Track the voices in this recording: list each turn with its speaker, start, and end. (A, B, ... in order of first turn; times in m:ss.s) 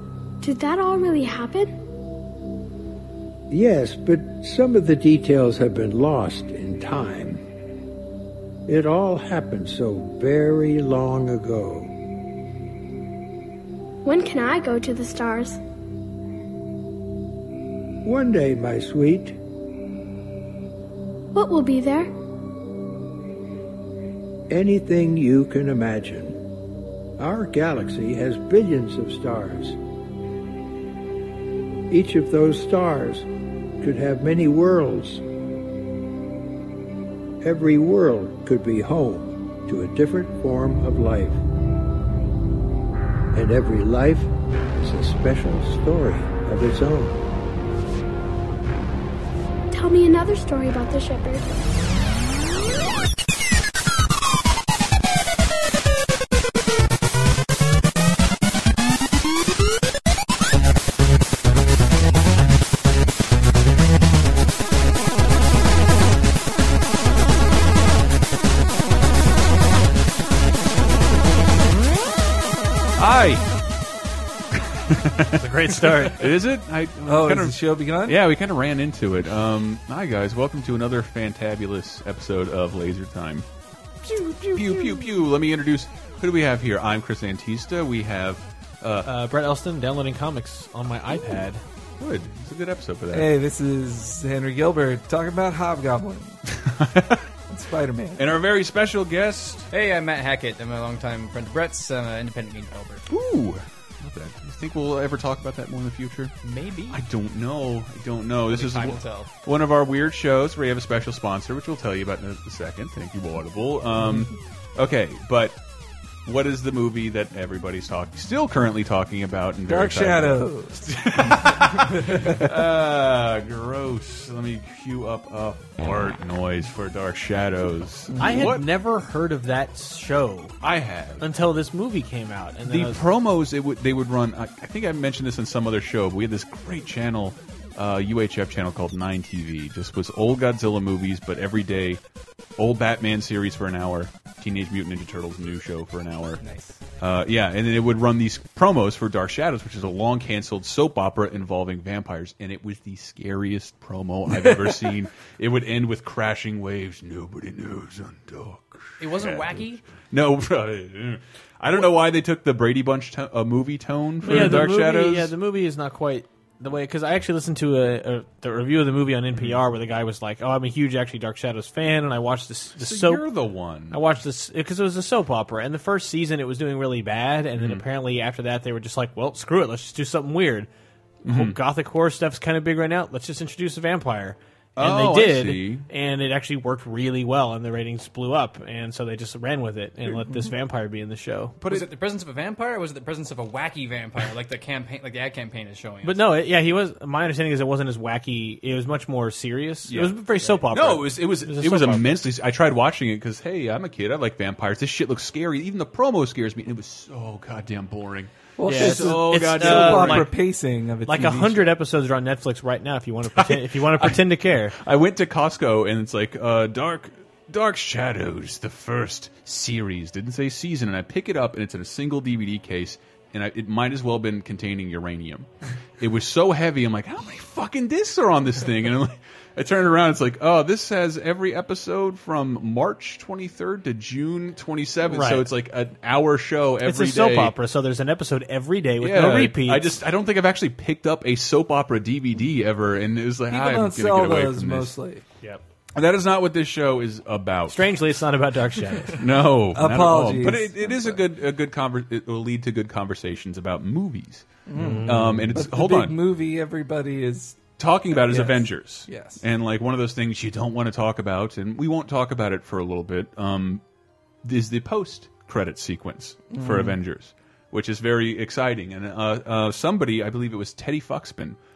0:00.4-0:01.7 A
0:03.5-0:07.4 B
0:08.7-0:11.9 B
0:14.0-0:15.6 A
0:18.0-0:19.4 B
0:21.3-0:22.1 A
0:24.5-0:26.4 B
0:27.2-0:29.8 B
0:31.9-0:33.3 B
0:33.8-0:35.2 B
0:37.4-0:41.4 B
0:43.3-0:47.2 B
0:49.7-0:51.5 A
1:13.0-1:13.4 C
1:14.9-1:23.4 C
1:15.4-1:16.3 D
1:17.1-1:18.2 E
1:24.0-1:25.1 E
1:24.5-1:29.1 C
1:29.0-1:31.6 D
1:32.0-1:33.3 C
1:33.1-1:36.4 E
1:36.5-1:37.2 C
1:37.5-1:38.3 E
1:38.2-1:39.7 C
1:39.7-1:43.0 F
1:43.1-1:46.4 C
1:46.4-1:47.0 F
1:46.9-1:55.6 C
1:48.5-1:49.3 F
1:56.2-2:08.6 C
1:59.7-2:02.5 E
2:08.1-2:08.5 E
2:08.2-2:10.6 D
2:10.6-2:11.2 C
2:11.2-2:13.0 D
2:12.7-2:22.0 C
2:22.6-2:26.4 C
2:26.4-2:26.8 F
2:27.0-2:45.3 C
2:39.0-2:39.8 F
2:44.2-2:53.2 D
2:49.4-2:49.6 C
2:52.8-2:54.0 C
2:53.9-3:00.7 D
2:57.6-2:57.8 C
3:01.2-3:11.6 D
3:01.2-3:01.6 C
3:04.8-3:05.9 C
3:11.6-3:11.9 C
3:11.7-3:16.2 F
3:16.0-3:22.1 D
3:19.9-3:20.2 C
3:20.7-3:30.3 C
3:28.6-3:31.7 E
3:28.6-3:30.3 D
3:31.1-3:34.8 D
3:33.4-3:34.2 C
3:34.8-3:57.6 C
3:55.1-3:55.5 D
3:56.8-4:00.0 D
3:59.0-4:05.0 C
4:03.5-4:05.2 E
4:06.0-4:07.9 C
4:07.7-4:09.2 D
4:09.2-4:16.2 C
4:09.7-4:11.2 E
4:14.7-4:19.4 E
4:14.7-4:15.6 D
4:17.8-4:23.8 C
4:24.4-4:31.6 C
4:26.5-4:27.0 E